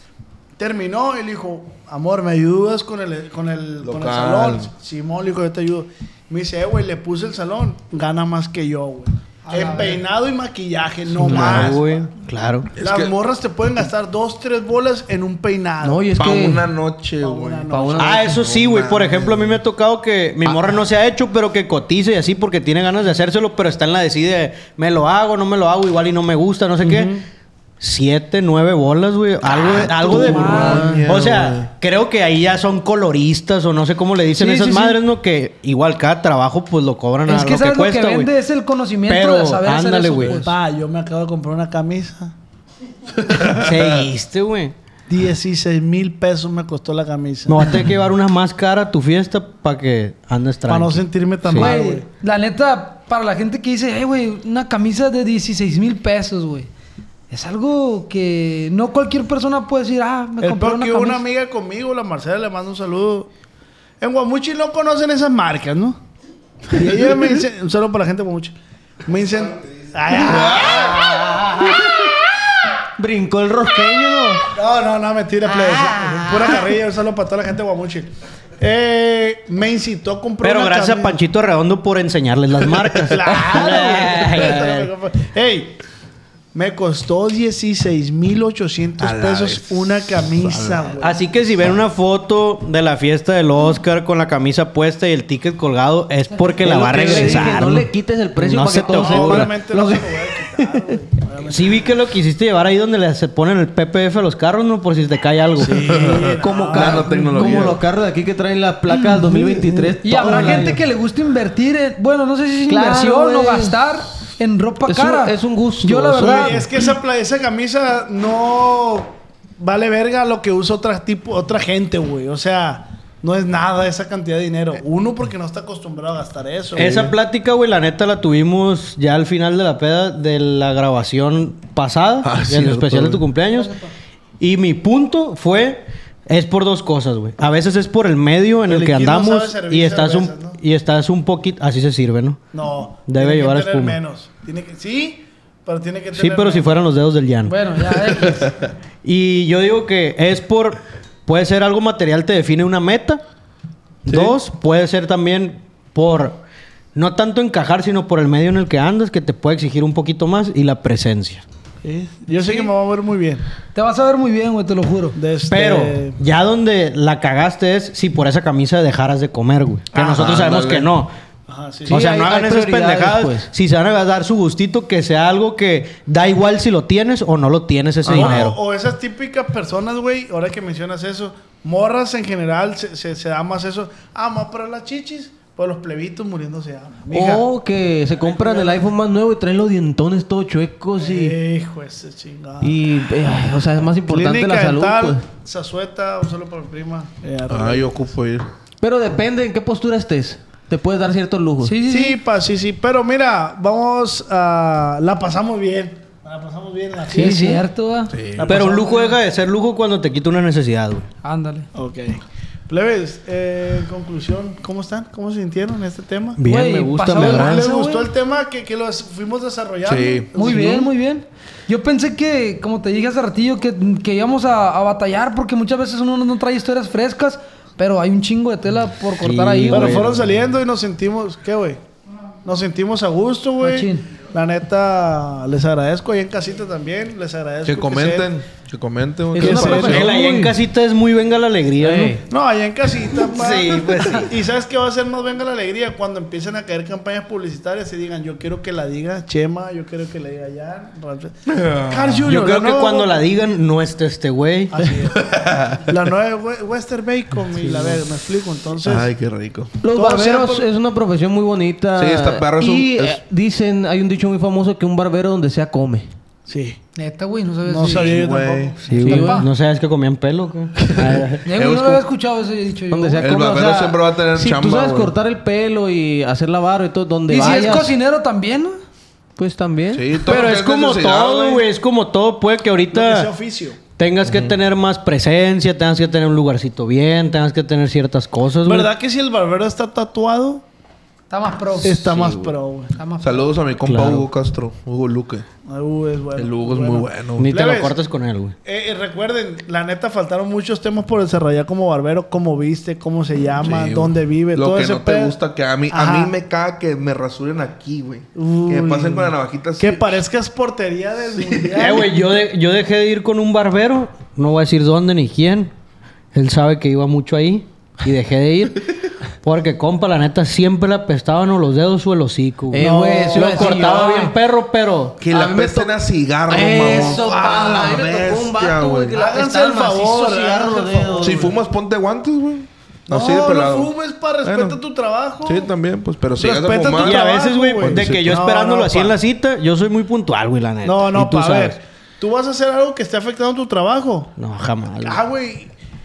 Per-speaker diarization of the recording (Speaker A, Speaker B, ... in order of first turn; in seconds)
Speaker A: 0.6-12.1, 12.8-16.1, 17.2-18.3, 40.3-42.3, 45.1-47.7, 50.7-52.0, 60.4-63.3, 64.0-66.0, 66.7-71.6, 74.5-81.2, 83.0-85.8, 86.5-91.2, 98.8-101.9, 105.6-107.6, 116.2-127.0, 133.5-133.8, 138.7-140.6, 142.5-146.8, 161.8-163.4, 165.1-166.2, 169.9-170.4, 171.5-172.0, 178.1-187.5, 188.1-188.9, 191.0-192.8, 194.0-198.0, 201.9-207.6, 208.3-209.1, 211.7-216.4, 217.1-220.9, 229.7-231.8, 232.4-238.3, 239.4-240.1, 242.3-253.3, 254.7-259.1, 259.9-260.6, 266.5-266.8, 267.7-268.8, 282.9-283.8, 288.6-290.6, 291.8-292.9, 295.7-298.0, 298.6-305.4, 305.9-306.3, 308.3-312.2, 326.8-328.5, 329.1-331.5, 333.1-335.7, 336.4-339.2, 340.8-344.3, 345.0-345.7
Speaker B: 3.8-4.7, 11.2-11.7, 12.8-13.1, 16.2-17.7, 18.2-19.6, 29.7-31.7, 43.2-43.8, 70.2-72.1, 89.0-90.9, 105.9-107.8, 126.8-127.1, 132.2-133.2, 170.2-170.9, 197.5-198.5, 208.1-208.5, 219.8-220.3, 237.6-240.2, 251.5-252.2, 255.2-255.8, 258.8-259.8, 261.9-263.2, 267.9-268.8, 271.5-272.0, 273.2-275.1, 279.9-281.6, 284.2-284.5, 293.2-295.4, 296.4-297.5, 303.6-310.2, 311.3-311.9, 325.2-329.1, 331.2-333.9, 334.4-334.8, 335.4-338.3
Speaker C: 9.5-10.0, 30.1-31.0, 34.4-35.0, 37.3-40.5, 51.5-56.7, 57.3-61.2, 96.3-97.5, 110.0-116.7, 147.4-148.6, 162.4-162.7, 163.7-165.2, 201.6-202.2, 207.1-208.1, 211.2-211.7, 216.5-218.1, 220.3-230.1, 233.6-234.0, 266.9-268.2, 269.0-269.5, 271.4-273.2, 277.3-278.8, 291.3-292.1, 292.9-293.5
Speaker D: 11.2-12.7, 18.0-27.2, 27.8-38.3, 39.1-40.4, 43.5-44.7, 47.5-51.8, 80.4-84.9, 91.0-99.5, 101.5-105.9, 110.2-110.7, 126.8-133.7, 134.4-142.4, 143.1-144.0, 146.1-147.7, 149.0-153.2, 154.0-156.4, 156.9-161.4, 165.5-171.1, 171.9-178.6, 208.4-211.1, 216.4-217.6, 229.2-230.2, 239.4-242.2, 243.3-244.3, 252.2-254.8, 257.5-258.0, 268.9-271.4, 280.2-283.3, 284.0-288.9, 292.1-292.5, 293.8-294.3, 297.4-298.5, 311.8-315.7, 316.3-318.9, 319.4-325.2, 337.0-341.8, 344.4-345.2
Speaker E: 15.8-16.7, 17.7-18.2, 30.1-31.0, 73.0-74.4, 96.6-101.0, 106.1-110.7, 112.7-113.8, 114.9-116.6, 171.9-173.5, 187.1-191.3, 192.6-195.2, 198.8-201.7, 207.2-207.6, 239.3-240.4, 241.8-242.2, 259.8-266.1, 269.0-269.4, 272.9-277.9, 279.4-280.1, 322.7-324.3, 325.2-325.9, 326.5-331.6